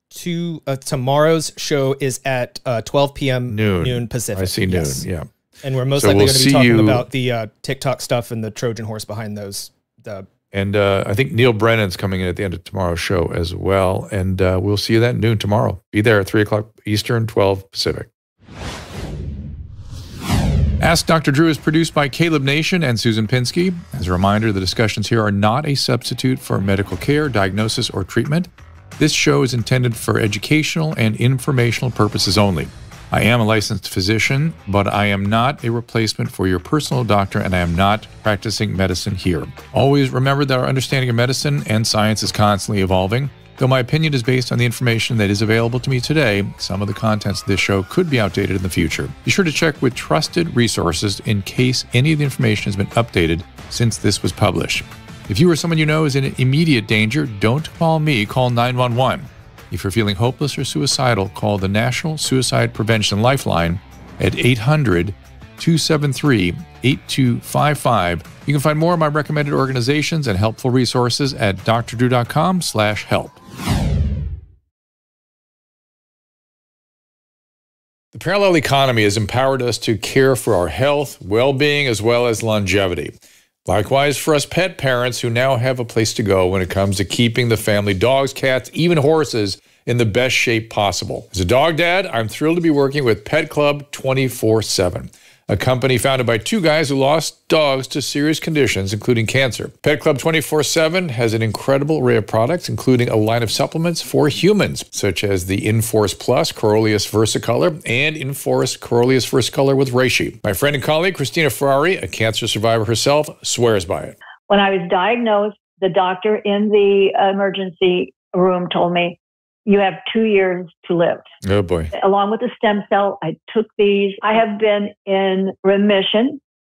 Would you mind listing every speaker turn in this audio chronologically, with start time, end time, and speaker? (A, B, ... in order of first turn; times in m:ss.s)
0:00.1-0:05.0 A
0:03.5-0:05.2 B
0:05.6-0:10.3 A
0:06.0-0:07.1 B
0:10.5-0:18.1 B
0:20.8-1:13.4 B
1:18.1-1:23.1 B
1:23.6-1:54.1 B
1:54.5-2:01.2 C
2:01.4-2:01.9 B
2:01.9-2:06.4 C